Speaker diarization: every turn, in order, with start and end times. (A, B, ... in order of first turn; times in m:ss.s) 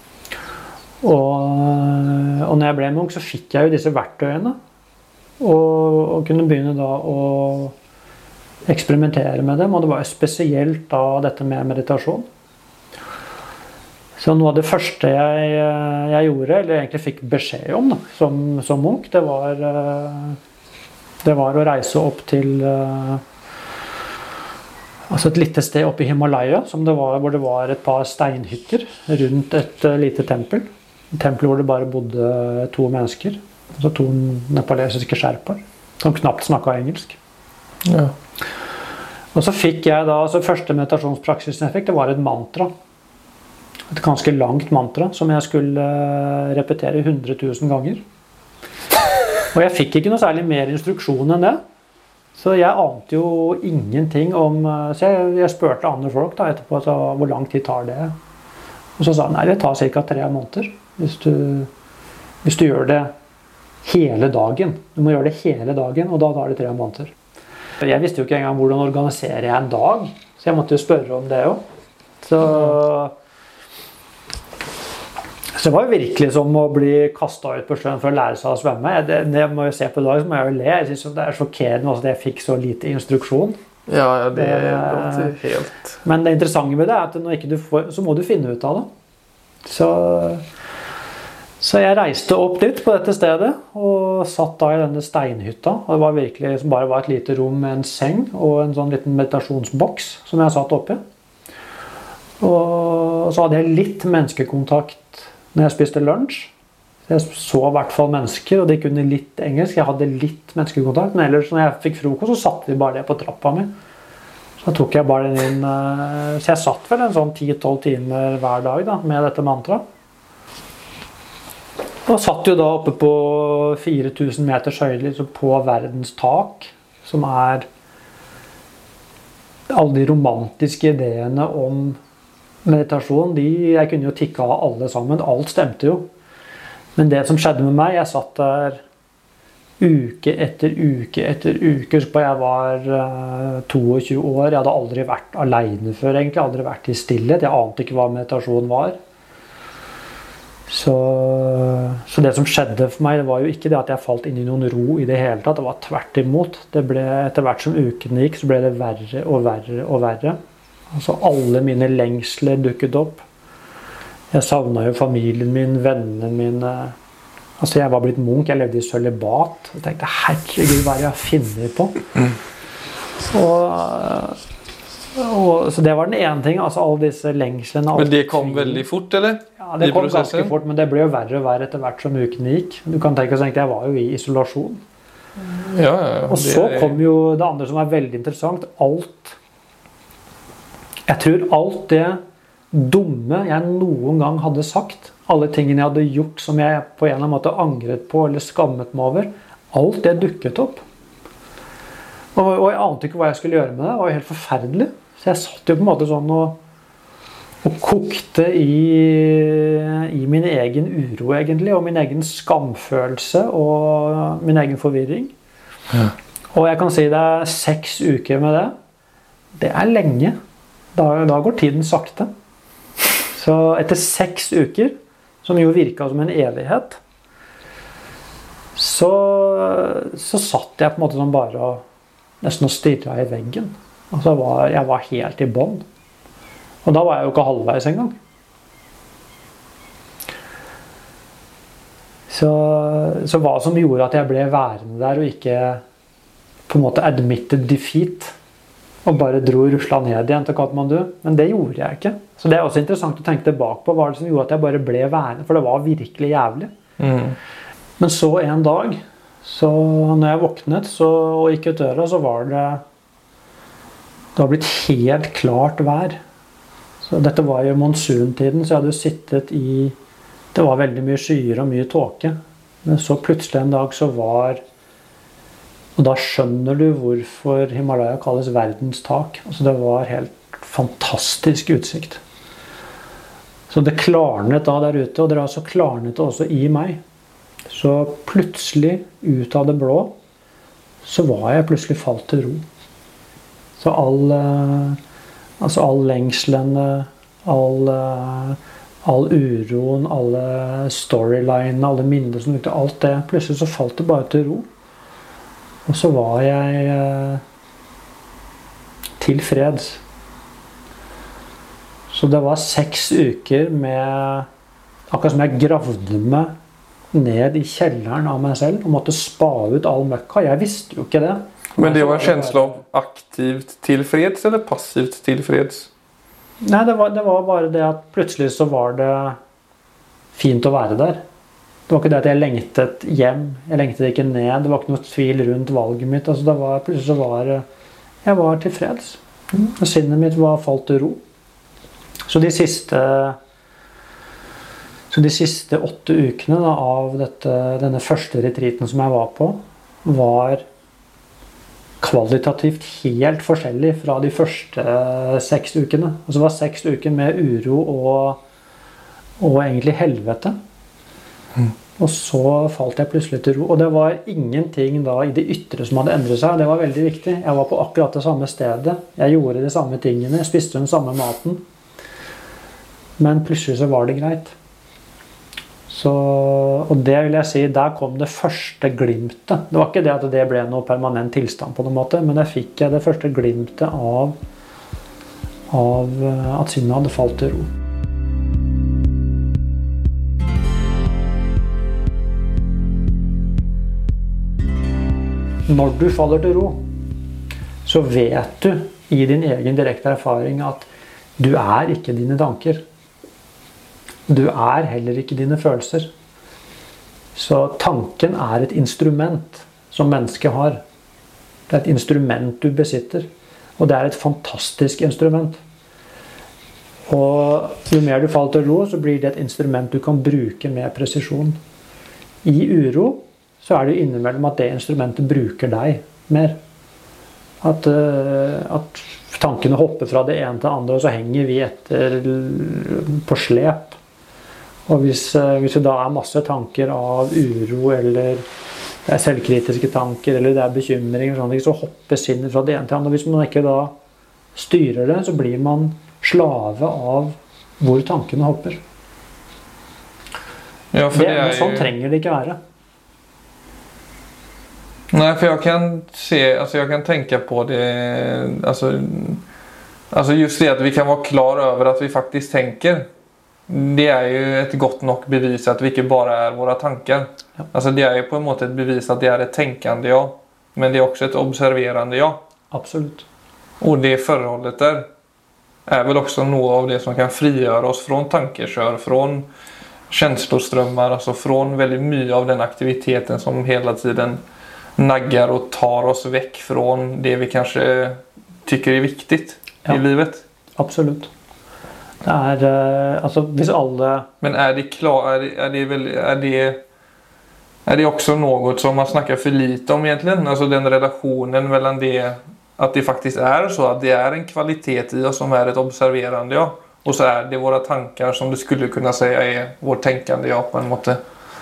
0:01.0-0:04.6 A
0:05.4-0:07.7 A
0:08.7-0:12.2 A
0:14.2-0:20.4 A
0:21.2-0:23.2 A
0:25.1-0:37.2 A
0:37.8-0:38.1 B
0:39.3-0:42.7 A
0:43.9-0:48.0 A
0:49.5-0:51.6 A
0:52.4-0:58.1 A
0:59.0-1:01.7 A
1:02.4-1:03.1 A
1:03.8-1:07.1 A
1:07.8-1:11.6 A
1:12.2-1:13.1 A
1:15.6-1:23.6 A
1:23.9-1:26.0 B
1:24.3-1:25.4 A
1:26.0-1:28.9 A
1:29.6-1:30.4 A
1:31.6-1:41.0 A
1:42.4-1:46.5 A
1:47.1-1:53.7 A
1:54.6-1:59.8 A
2:02.0-2:07.7 A
2:09.7-2:12.0 A
2:12.6-2:16.1 A
2:17.0-2:18.8 A
2:19.8-2:29.0 A
2:30.7-2:40.4 A
2:40.9-2:43.2 A
2:44.3-2:47.0 A
2:47.6-2:52.0 A
2:53.3-2:54.4 A
2:55.1-2:58.8 A
2:57.9-3:00.5 B
2:59.6-3:04.8 A
3:05.6-3:07.0 B
3:06.3-3:09.4 A
3:11.1-3:12.2 A
3:12.7-3:20.8 A
3:22.3-3:26.6 A
3:27.6-3:35.3 A
3:36.5-3:38.7 A
3:39.6-3:40.4 A
3:40.9-3:42.3 A
3:43.3-3:47.0 A
3:48.8-3:51.8 A
3:52.4-3:55.8 A
3:56.8-3:58.2 A
4:02.3-4:05.8 A
4:06.7-4:08.3 A
4:09.0-4:16.7 A
4:17.0-4:17.4 B
4:18.0-4:22.8 A
4:24.4-4:26.2 A
4:27.0-4:30.0 A
4:30.5-4:34.6 A
4:36.0-4:42.2 A
4:43.7-4:47.0 A
4:47.7-4:50.1 A
4:51.0-4:52.6 A
4:53.8-4:55.0 A
4:55.6-5:04.7 A
5:05.9-5:07.4 A
5:09.2-5:10.0 A
5:12.1-5:14.5 A
5:15.1-5:16.5 A
5:17.1-5:22.8 A
5:21.8-5:25.9 B
5:26.6-5:29.4 A
5:30.3-5:31.2 A
5:31.9-5:37.6 A
5:38.2-5:41.2 A
5:42.3-5:43.4 A
5:45.1-5:50.6 A
5:52.0-5:58.4 A
5:59.4-6:00.6 A
6:02.0-6:11.6 A
6:13.2-6:14.6 A
6:15.9-6:24.4 A
6:25.7-6:27.7 A
6:35.7-6:36.8 A
6:37.8-6:42.8 A
6:44.3-6:46.1 A
6:47.3-6:50.8 A
6:51.7-6:53.3 A
6:53.8-6:55.6 A
6:57.1-7:01.6 A
7:02.4-7:06.6 A
7:07.6-7:14.0 A
7:14.9-7:18.4 A
7:19.1-7:23.9 A
7:24.5-7:28.8 A
7:30.9-7:31.9 B
7:31.1-7:32.6 A
7:35.1-7:39.4 B
7:40.1-7:43.1 B
7:43.7-7:52.4 B
7:52.7-7:53.2 A
7:53.8-7:55.0 B
7:55.8-7:59.5 B
8:00.1-8:04.4 B
8:05.0-8:10.4 B
8:10.8-8:11.3 A
8:12.2-8:14.3 A
8:14.4-8:16.8 B
8:17.8-8:31.2 B